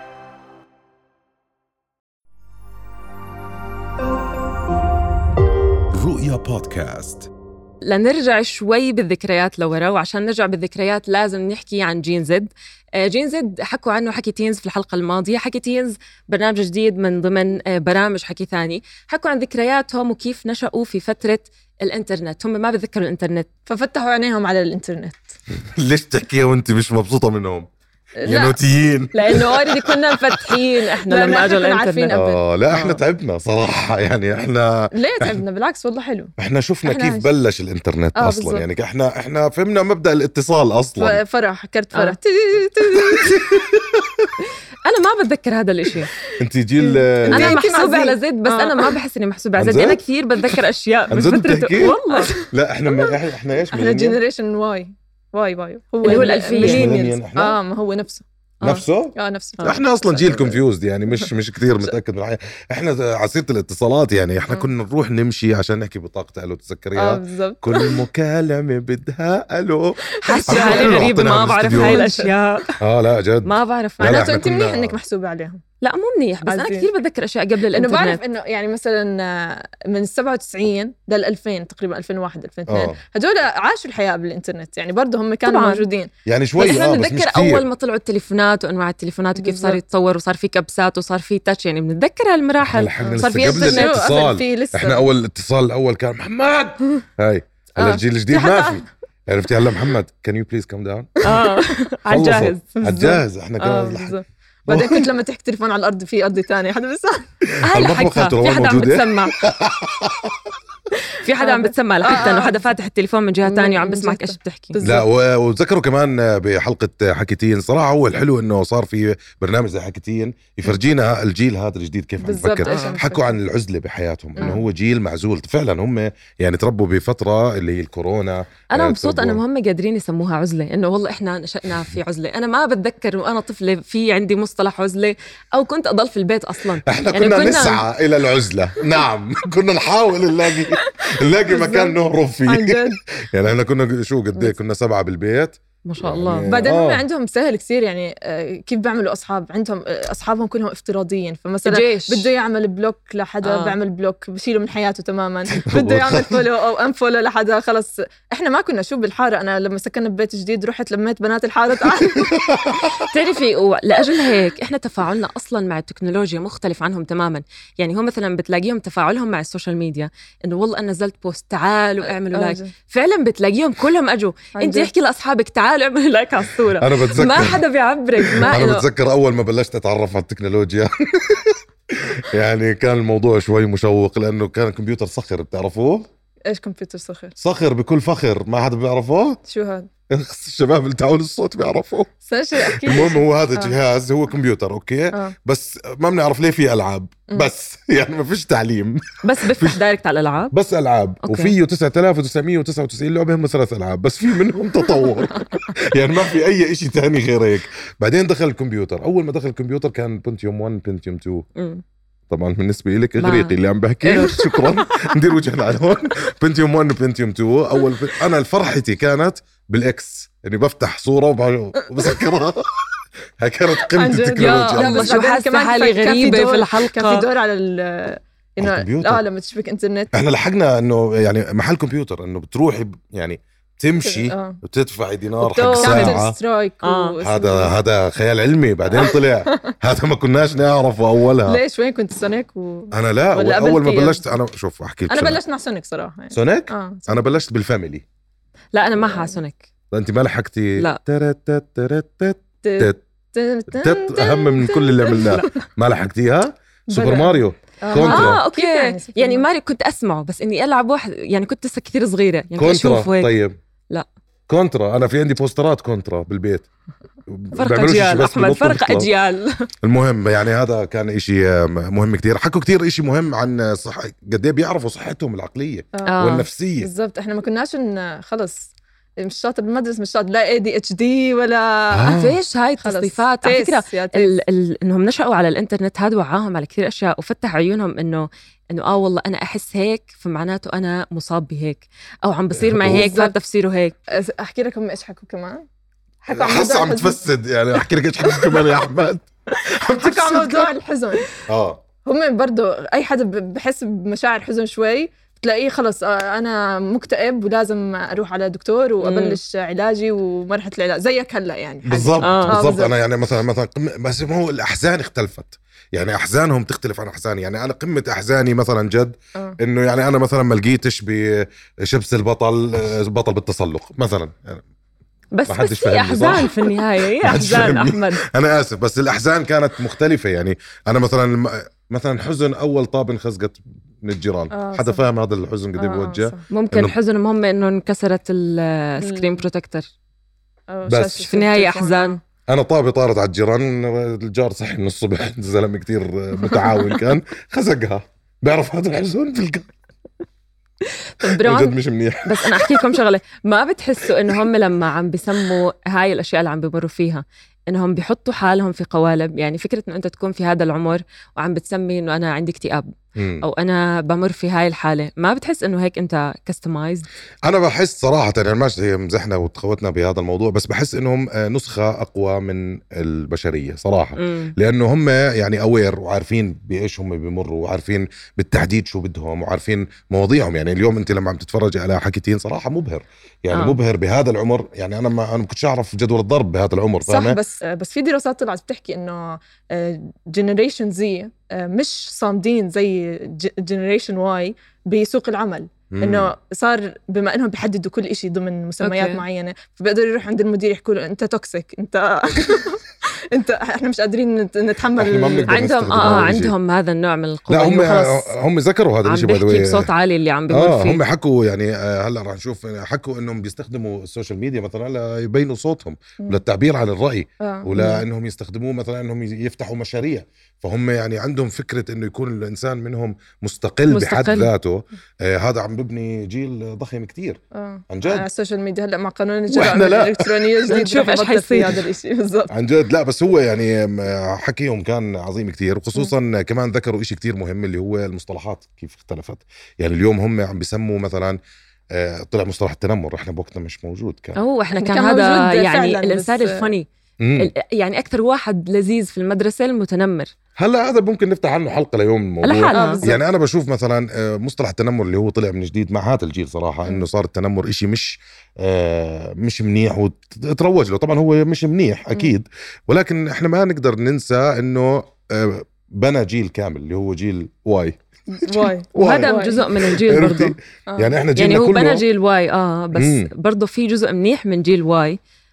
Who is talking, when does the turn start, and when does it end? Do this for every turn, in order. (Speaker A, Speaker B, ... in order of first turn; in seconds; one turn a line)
Speaker A: 5.9-7.3
Speaker B: 7.8-23.5
Speaker C: 23.7-25.4
Speaker A: 25.7-27.7
Speaker C: 28.2-28.6
Speaker A: 28.2-30.4
Speaker B: 29.1-33.0
Speaker C: 30.9-32.4
Speaker A: 32.1-35.4
Speaker C: 34.9-37.3
Speaker A: 36.4-41.2
Speaker C: 38.1-38.7
Speaker C: 41.0-43.6
Speaker A: 43.2-43.8
Speaker B: 44.8-46.1
Speaker A: 46.4-47.6
Speaker C: 46.8-49.0
Speaker B: 47.3-52.4
Speaker A: 49.6-50.5
Speaker A: 51.1-54.2
Speaker C: 52.1-58.2
Speaker B: 56.0-57.0
Speaker A: 56.6-57.6
Speaker B: 58.6-58.9
Speaker A: 58.6-72.0
Speaker C: 59.1-61.9
Speaker C: 66.9-68.1
Speaker C: 70.0-72.3
Speaker B: 70.2-72.7
Speaker A: 72.8-75.0
Speaker B: 73.4-74.3
Speaker C: 74.0-75.6
Speaker B: 75.8-78.2
Speaker C: 76.4-76.9
Speaker C: 77.7-86.1
Speaker A: 82.7-83.0
Speaker B: 85.5-85.8
Speaker A: 86.3-87.7
Speaker B: 86.6-94.2
Speaker C: 89.4-89.8
Speaker A: 92.6-101.3
Speaker C: 93.0-95.1
Speaker C: 97.8-98.9
Speaker C: 101.2-101.5
Speaker B: 101.2-102.7
Speaker A: 102.1-105.1
Speaker C: 102.7-107.3
Speaker A: 107.5-110.3
Speaker B: 107.6-109.5
Speaker B: 111.2-114.8
Speaker C: 111.4-112.7
Speaker C: 113.5-115.1
Speaker A: 114.8-129.4
Speaker C: 122.2-123.4
Speaker B: 122.6-123.0
Speaker C: 124.4-124.7
Speaker B: 128.7-137.9
Speaker A: 136.8-147.1
Speaker C: 140.8-143.0
Speaker B: 145.8-146.5
Speaker C: 146.4-162.5
Speaker B: 151.7-152.3
Speaker B: 153.4-153.8
Speaker A: 155.5-156.4
Speaker A: 162.2-163.0
Speaker B: 163.1-178.9
Speaker C: 172.3-172.7
Speaker C: 174.6-174.9
Speaker A: 176.7-177.6
Speaker A: 178.2-186.1
Speaker C: 186.5-187.3
Speaker A: 187.4-189.4
Speaker C: 189.4-189.9
Speaker A: 190.1-199.8
Speaker C: 192.3-193.8
Speaker B: 199.2-200.5
Speaker A: 200.5-211.5
Speaker B: 201.2-201.6
Speaker B: 211.6-211.8
Speaker A: 212.3-225.1
Speaker B: 213.2-214.9
Speaker C: 221.8-222.2
Speaker C: 223.8-230.1
Speaker B: 224.4-227.3
Speaker A: 228.6-229.2
Speaker A: 230.1-236.4
Speaker C: 234.0-234.6
Speaker C: 235.4-237.8
Speaker B: 235.7-236.2
Speaker B: 236.8-237.1
Speaker A: 237.2-241.6
Speaker C: 238.9-239.7
Speaker C: 241.4-244.3
Speaker A: 242.9-245.4
Speaker C: 245.1-247.3
Speaker A: 246.3-248.0
Speaker B: 248.7-249.6
Speaker C: 248.9-249.4
Speaker A: 249.9-253.0
Speaker C: 252.6-255.5
Speaker A: 253.7-258.4
Speaker B: 255.1-255.5
Speaker C: 256.9-259.5
Speaker B: 257.9-264.1
Speaker A: 262.6-263.6
Speaker A: 264.5-266.7
Speaker A: 267.3-269.1
Speaker B: 267.5-269.7
Speaker A: 269.8-276.9
Speaker C: 275.9-276.2
Speaker B: 276.1-276.5
Speaker C: 276.8-282.3
Speaker A: 281.9-282.4
Speaker B: 282.1-293.9
Speaker C: 282.8-284.4
Speaker A: 292.6-293.1
Speaker C: 292.9-293.4
Speaker C: 294.1-295.6
Speaker C: 296.2-297.2
Speaker A: 296.3-300.7
Speaker B: 298.4-298.7
Speaker C: 299.9-301.3
Speaker A: 301.5-301.8
Speaker C: 302.0-313.0
Speaker B: 309.0-309.4
Speaker A: 311.8-324.6
Speaker B: 312.2-312.6
Speaker B: 325.3-328.2
Speaker A: 325.5-326.6
Speaker A: 327.2-336.9
Speaker C: 334.5-335.1
Speaker C: 335.8-336.5
Speaker B: 336.5-339.9
Speaker C: 339.0-339.4
Speaker C: 340.7-342.2
Speaker A: 340.9-341.2
Speaker B: 341.2-342.2
Speaker A: 342.5-349.7
Speaker C: 346.3-346.8
Speaker B: 350.8-362.9
Speaker A: 351.2-352.9
Speaker A: 363.2-363.5
Speaker B: 363.4-367.1
Speaker A: 367.5-387.4
Speaker B: 374.2-374.5
Speaker B: 383.5-383.8
Speaker C: 387.1-406.4
Speaker A: 395.9-396.3
Speaker B: 398.8-399.2
Speaker A: 405.0-406.5
Speaker B: 405.5-408.3
Speaker A: 407.5-409.9
Speaker B: 409.0-411.0
Speaker A: 410.5-428.3
Speaker C: 417.4-417.7
Speaker B: 417.7-418.0
Speaker B: 423.9-424.5
Speaker C: 427.5-432.5
Speaker A: 429.5-430.4
Speaker B: 430.6-431.8
Speaker A: 432.5-441.4
Speaker A: 441.9-444.4
Speaker B: 444.4-450.3
Speaker C: 444.7-446.8
Speaker A: 447.2-447.5
Speaker A: 450.6-472.1
Speaker B: 452.4-453.0
Speaker C: 452.7-453.2
Speaker C: 468.3-469.7
Speaker B: 468.9-470.6
Speaker C: 470.9-471.2
Speaker B: 471.4-475.2
Speaker A: 472.9-473.3